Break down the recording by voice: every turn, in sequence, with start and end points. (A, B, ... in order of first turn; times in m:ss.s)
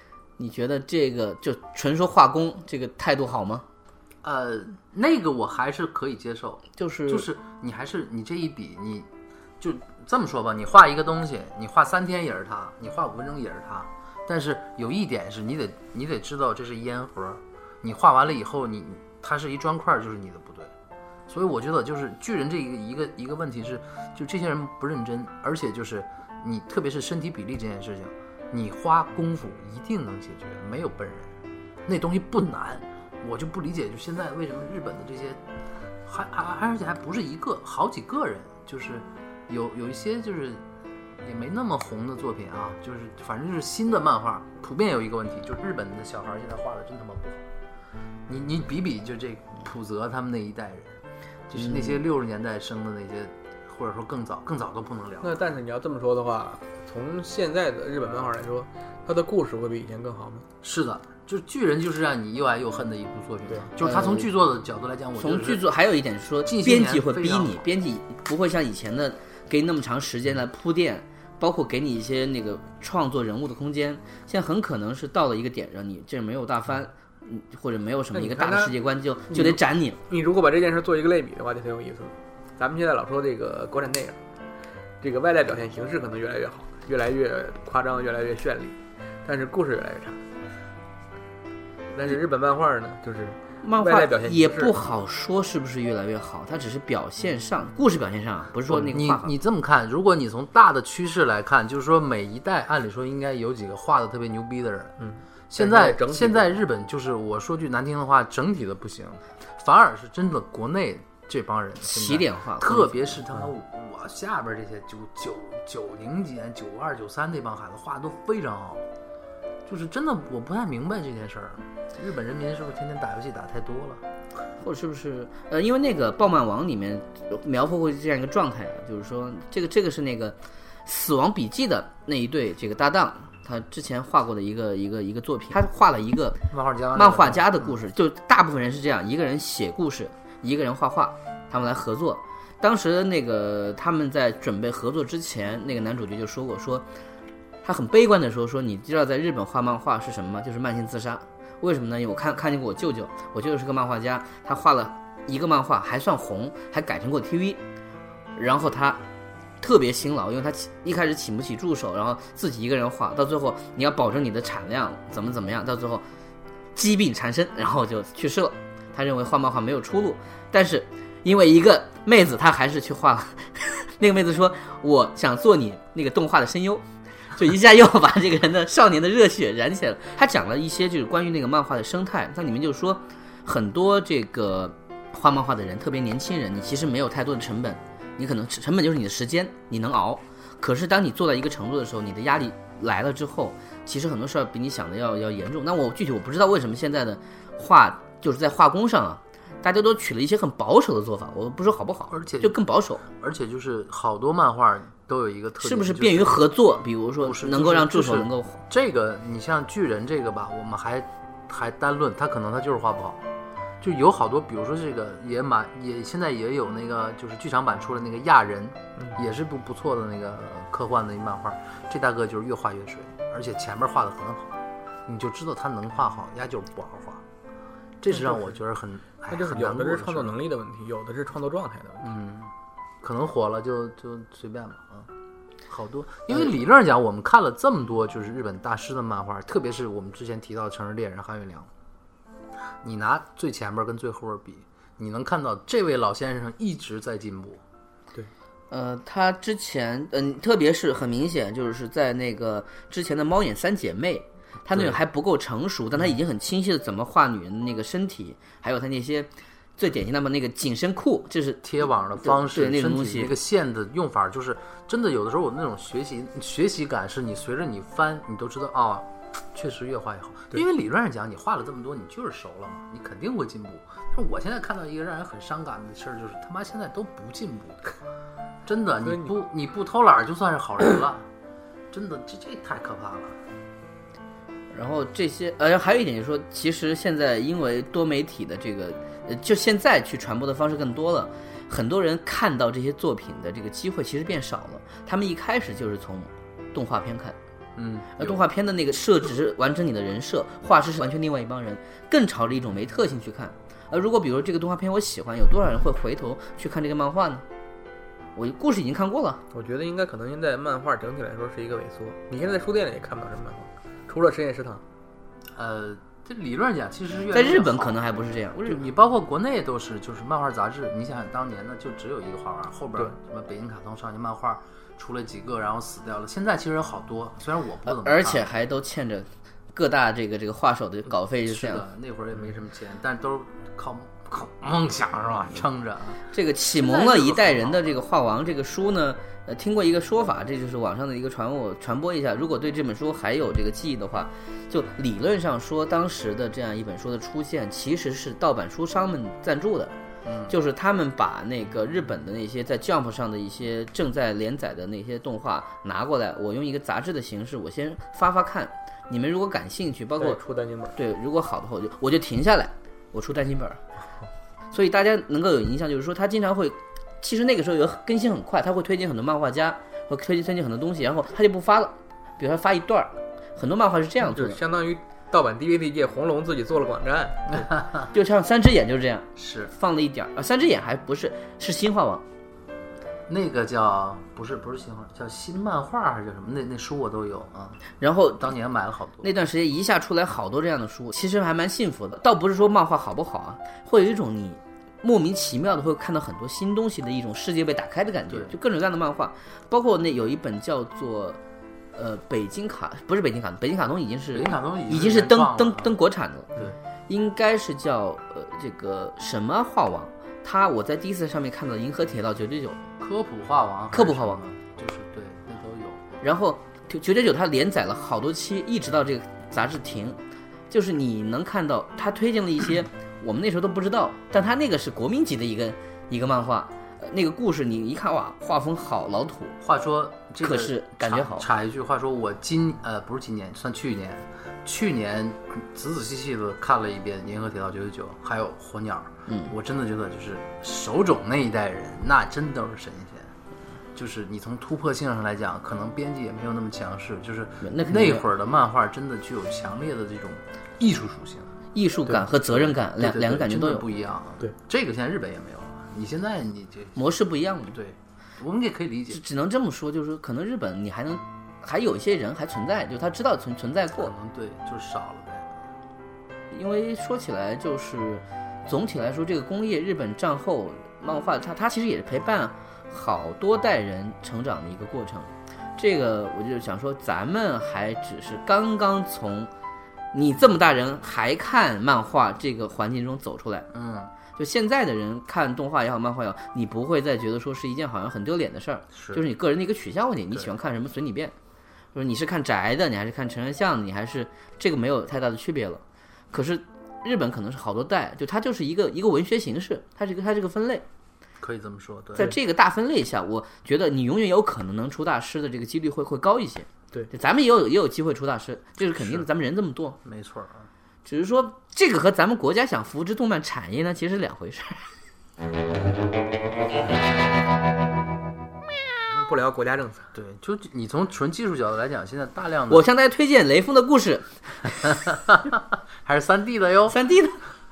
0:00.4-0:03.6 A
0:04.2-0:09.1 B
0:06.8-0:07.3 A
0:09.6-0:20.7 B
0:21.3-0:31.3 B
0:31.8-0:35.4 B
0:36.0-0:40.6 B
0:41.2-0:47.4 B
0:48.3-0:51.0 B
0:51.5-0:55.4 B
0:51.6-0:52.0 A
0:55.2-1:00.4 C
1:00.6-1:05.6 B
1:03.8-1:04.3 A
1:05.2-1:20.0 A
1:06.4-1:07.6 B
1:18.1-1:18.7 C
1:19.3-1:24.2 C
1:25.0-1:30.2 C
1:31.9-1:34.8 C
1:33.6-1:39.3 A
1:38.7-1:45.0 B
1:45.0-1:46.5 C
1:45.5-1:58.8 B
1:51.8-1:53.0 A
1:59.6-2:04.0 B
2:04.6-2:16.4 A
2:16.5-2:17.8 B
2:16.9-2:26.9 A
2:27.6-2:37.6 A
2:38.4-2:39.0 A
2:39.6-2:46.0 A
2:46.7-2:56.8 A
2:57.3-3:23.0 A
3:22.1-3:26.4 B
3:25.6-3:28.6 A
3:27.2-3:33.2 B
3:33.8-3:47.2 B
3:48.0-3:50.4 B
3:48.1-3:48.6 C
3:49.3-3:52.1 C
3:52.0-3:52.5 B
3:53.0-3:55.1 B
3:55.7-4:01.7 B
4:02.8-4:07.6 B
4:08.7-4:21.6 A
4:21.6-4:38.0 B
4:22.2-4:23.3 A
4:38.6-4:41.2 B
4:39.0-4:39.3 C
4:41.9-4:43.4 B
4:44.7-4:57.4 A
4:57.8-4:58.4 B
4:58.2-5:07.4 A
5:08.3-5:09.4 A
5:09.5-5:14.8 C
5:15.5-5:28.5 B
5:17.3-5:18.8 A
5:27.9-5:31.8 A
5:31.4-5:38.0 B
5:36.3-5:49.9 A
5:50.2-5:50.5 B
5:50.5-6:00.4 A
6:00.2-6:01.0 C
6:00.9-6:03.8 A
6:04.7-6:14.6 A
6:14.2-6:17.7 C
6:17.6-6:18.1 B
6:18.1-6:22.2 A
6:19.4-6:19.7 B
6:23.3-6:27.8 B
6:28.0-6:28.5 A
6:28.4-6:29.3 B
6:29.2-6:41.4 A
6:38.3-6:38.5 B
6:41.9-6:46.5 A
6:44.3-6:46.0 B
6:47.1-6:52.8 A
6:53.0-6:56.2 B
6:53.9-6:54.4 A
6:56.2-7:00.2 A
7:00.7-7:09.6 A
7:09.6-7:23.3 B
7:10.4-7:11.4 A
7:19.3-7:19.5 A
7:23.9-7:31.5 B
7:27.6-7:28.2 A
7:31.7-7:33.8 A
7:32.1-7:37.0 B
7:37.0-7:37.8 A
7:37.7-7:39.2 B
7:39.1-7:44.1 A
7:44.0-7:45.5 B
7:46.5-7:59.5 A
8:00.1-8:03.7 A
8:03.7-8:04.1 B
8:04.3-8:11.3 A
8:08.9-8:09.2 B
8:11.9-8:20.8 A
8:21.4-8:22.3 B
8:22.2-8:30.0 A
8:29.0-8:29.2 B
8:30.0-8:30.7 B
8:31.0-8:34.9 A
8:39.1-8:40.1 C
8:40.1-8:42.8 B
8:42.7-8:45.0 A
8:44.9-8:47.0 B
8:46.9-8:47.4 A